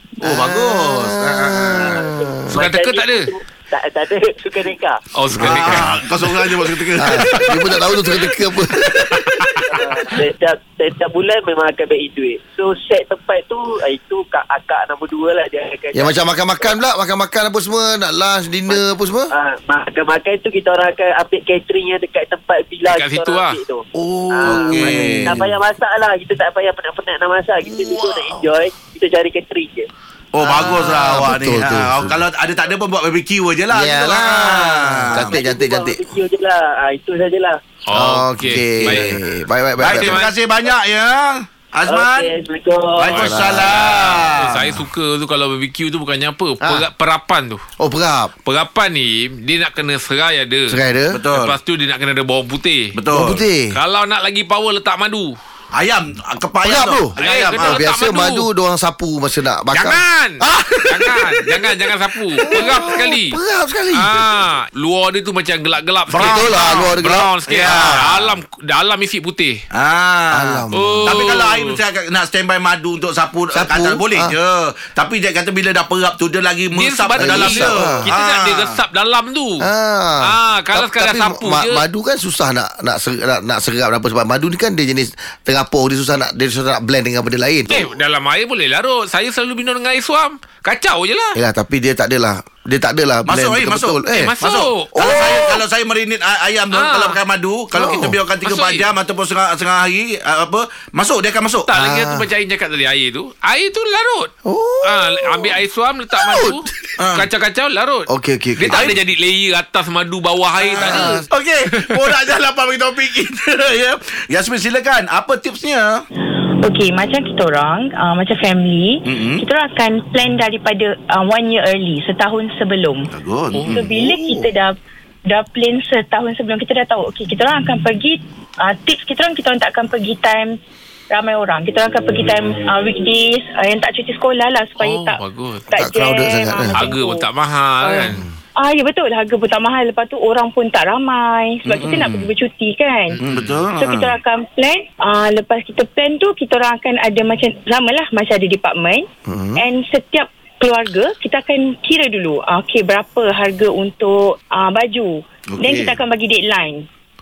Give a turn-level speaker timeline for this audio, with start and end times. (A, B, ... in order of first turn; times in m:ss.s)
0:00.2-0:02.5 A
0:00.2-0:02.1 B
0:01.8-0:05.0 C
0:02.5-0:03.3 D
0:05.1-0:06.3 D
0:05.3-0:06.0 A
0:05.3-0:07.4 B
0:06.9-0:09.2 A
0:07.0-0:07.7 D
0:09.1-0:09.4 B
0:09.4-0:09.7 D
0:09.7-0:16.7 C
0:15.9-0:19.3 A
0:19.3-0:29.9 C
0:22.9-0:23.6 D
0:24.0-0:25.5 A
0:24.4-0:25.5 B
0:27.8-0:28.2 A
0:30.3-0:35.4 B
0:30.4-0:32.2 A
0:33.7-0:36.0 A
0:35.1-0:37.6 C
0:37.9-0:39.2 D
0:37.9-0:40.2 A
0:38.8-0:39.1 B
0:39.8-0:40.3 D
0:39.8-0:42.3 B
0:41.9-0:43.2 C
0:43.0-0:44.8 B
0:43.1-0:47.6 D
0:43.2-0:43.9 A
0:46.6-0:46.9 A
0:47.8-0:48.3 A
0:48.4-0:50.8 D
0:50.7-0:51.2 A
0:51.1-0:51.5 B
0:51.3-0:52.9 D
0:52.9-0:53.4 B
0:53.1-0:53.7 A
0:53.7-0:55.3 D
0:55.7-0:57.8 B
0:56.6-1:04.4 A
0:57.2-0:58.4 D
0:59.7-1:03.4 D
1:03.9-1:09.6 D
1:06.1-1:08.3 B
1:06.1-1:08.2 A
1:09.7-1:18.7 B
1:10.3-1:11.1 A
1:10.7-1:11.8 D
1:13.5-1:14.3 A
1:16.7-1:19.6 D
1:17.2-1:18.0 A
1:19.6-1:27.9 A
1:20.2-1:21.8 D
1:27.7-1:31.4 D
1:31.3-1:34.3 A
1:33.2-1:41.7 B
1:34.1-1:35.6 D
1:35.0-1:35.4 A
1:36.7-1:37.2 D
1:37.7-1:38.2 A
1:38.4-1:38.8 D
1:41.7-1:44.3 D
1:41.7-1:42.2 A
1:44.4-1:45.6 A
1:44.8-1:52.1 D
1:46.2-1:46.9 A
1:47.0-1:47.2 B
1:48.1-1:49.0 A
1:48.7-1:49.0 B
1:50.6-1:56.0 B
1:50.8-1:51.2 A
1:56.6-2:03.1 E
1:59.0-1:59.4 B
2:03.1-2:04.4 B
2:03.5-2:03.8 D
2:03.7-2:04.8 E
2:05.3-2:10.6 E
2:11.1-2:17.3 E
2:14.8-2:15.7 D
2:15.8-2:16.9 A
2:16.7-2:18.2 D
2:17.8-2:23.2 E
2:17.9-2:18.3 A
2:21.6-2:22.3 B
2:23.1-2:23.6 D
2:23.2-2:24.2 B
2:23.7-2:36.8 E
2:29.2-2:29.6 A
2:35.5-2:36.0 B